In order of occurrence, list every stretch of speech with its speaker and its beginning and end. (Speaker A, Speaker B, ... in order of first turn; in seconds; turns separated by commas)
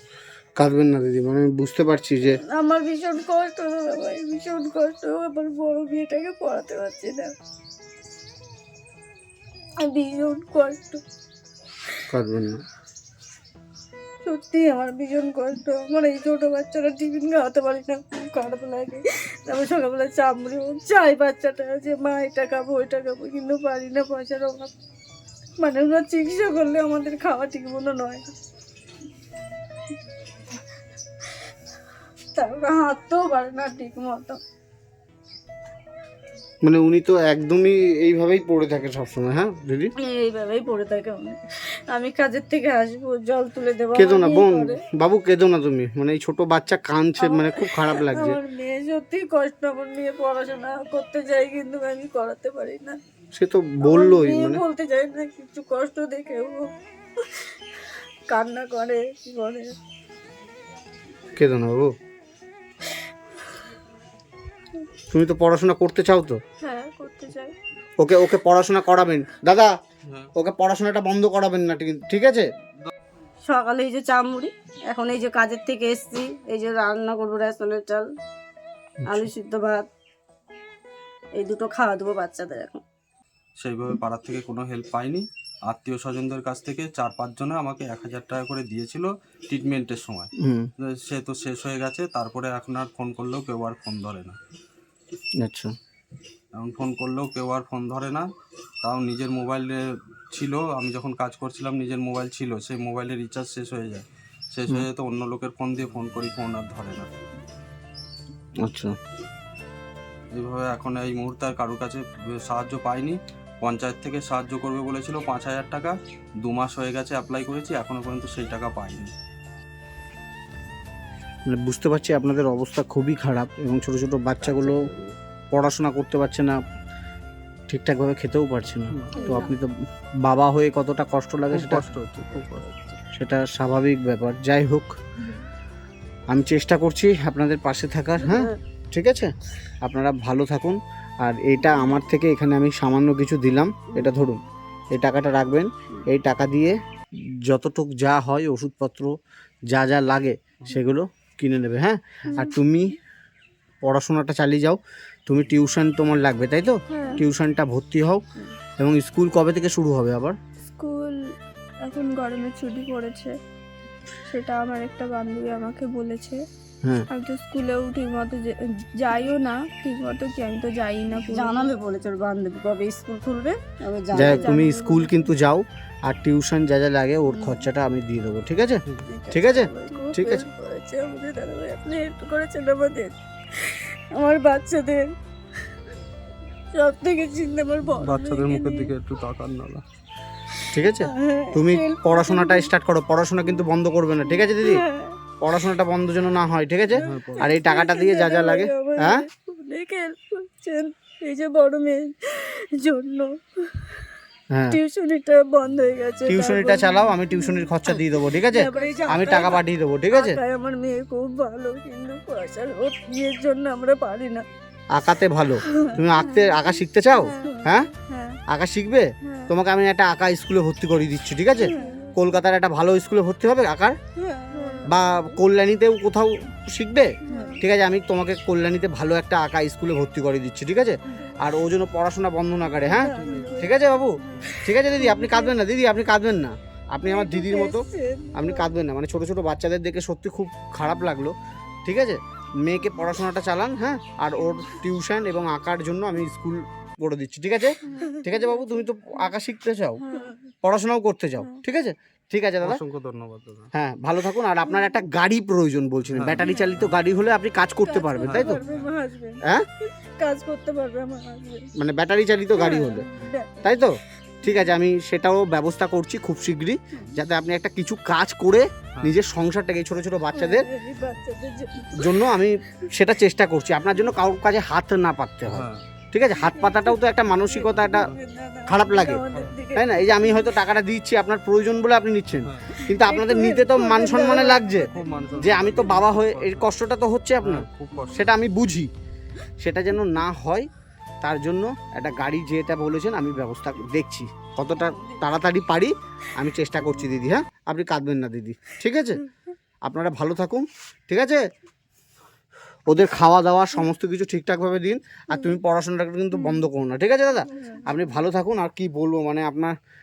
Speaker A: 0.6-2.4, Speaker B: 2.4-7.3, Speaker B: 9.8-11.0, Speaker A: 12.1-12.6, Speaker B: 14.2-24.7, Speaker B: 25.6-28.3, Speaker B: 32.4-34.4, Speaker A: 36.6-39.9, Speaker B: 40.0-41.4, Speaker B: 41.9-44.8, Speaker A: 44.0-48.4, Speaker B: 47.2-53.0, Speaker A: 53.3-54.6, Speaker B: 53.8-56.7, Speaker B: 58.3-59.7, Speaker A: 61.4-61.9, Speaker A: 65.1-66.4, Speaker C: 66.6-67.5, Speaker A: 68.0-69.7, Speaker D: 70.1-70.3, Speaker A: 70.4-72.5, Speaker B: 73.5-78.1, Speaker A: 79.0-79.3, Speaker B: 79.1-79.9, Speaker B: 81.4-82.8, Speaker D: 83.6-94.4, Speaker A: 90.4-90.7, Speaker A: 95.4-95.7, Speaker D: 96.5-98.3, Speaker D: 98.8-99.8, Speaker D: 100.3-107.1, Speaker A: 108.6-109.0, Speaker D: 110.3-119.1, Speaker A: 121.5-124.9, Speaker B: 124.5-124.8, Speaker A: 125.5-126.6, Speaker A: 127.7-129.7, Speaker E: 128.9-129.3, Speaker B: 129.2-129.5, Speaker A: 130.2-131.9, Speaker E: 131.5-132.7, Speaker B: 132.4-133.0, Speaker A: 133.1-134.9, Speaker A: 136.3-139.3, Speaker B: 138.2-138.6, Speaker A: 139.8-144.4, Speaker A: 144.9-146.8, Speaker A: 147.5-149.1, Speaker A: 149.7-152.9, Speaker B: 152.3-152.5, Speaker A: 153.8-158.2, Speaker C: 156.9-157.2, Speaker A: 158.8-160.4, Speaker C: 160.8-161.2, Speaker C: 161.9-163.3, Speaker C: 164.3-166.4, Speaker C: 167.1-171.7, Speaker B: 171.2-174.6, Speaker A: 174.2-178.8, Speaker C: 174.3-175.3, Speaker B: 177.3-177.7, Speaker B: 179.1-185.1, Speaker A: 179.3-180.5, Speaker B: 186.7-188.9, Speaker E: 188.0-189.8, Speaker B: 190.6-192.7, Speaker A: 190.7-194.8, Speaker B: 194.3-195.2, Speaker A: 195.4-199.2, Speaker E: 197.1-197.5, Speaker B: 197.4-203.9, Speaker A: 204.5-204.8, Speaker B: 204.7-214.4, Speaker A: 206.3-210.4, Speaker A: 214.9-217.9, Speaker B: 215.6-216.3, Speaker B: 217.4-218.4, Speaker A: 218.5-224.0, Speaker B: 221.6-222.1, Speaker B: 224.2-224.8, Speaker C: 224.6-224.9, Speaker A: 224.9-241.3, Speaker B: 227.3-227.6, Speaker B: 232.9-233.8, Speaker B: 234.5-235.5, Speaker B: 237.1-238.7, Speaker A: 241.8-250.0, Speaker B: 247.9-248.4, Speaker B: 250.1-250.4, Speaker A: 250.6-252.8, Speaker D: 252.6-253.7, Speaker A: 253.7-258.6, Speaker D: 256.1-256.9, Speaker B: 257.9-259.4, Speaker D: 258.2-258.9, Speaker B: 260.2-261.7, Speaker A: 261.8-263.1, Speaker B: 262.6-263.8, Speaker A: 263.6-270.7, Speaker B: 270.3-272.3, Speaker A: 272.0-278.1, Speaker D: 275.5-275.8, Speaker B: 276.4-280.6, Speaker A: 278.7-279.2, Speaker A: 279.8-288.9, Speaker D: 282.4-282.9, Speaker B: 282.8-285.7, Speaker D: 284.9-286.7, Speaker D: 287.4-288.3, Speaker B: 287.9-288.2, Speaker A: 289.6-290.7, Speaker A: 291.2-299.2, Speaker B: 294.8-295.2, Speaker A: 299.9-301.4, Speaker A: 302.9-309.8, Speaker B: 307.5-307.9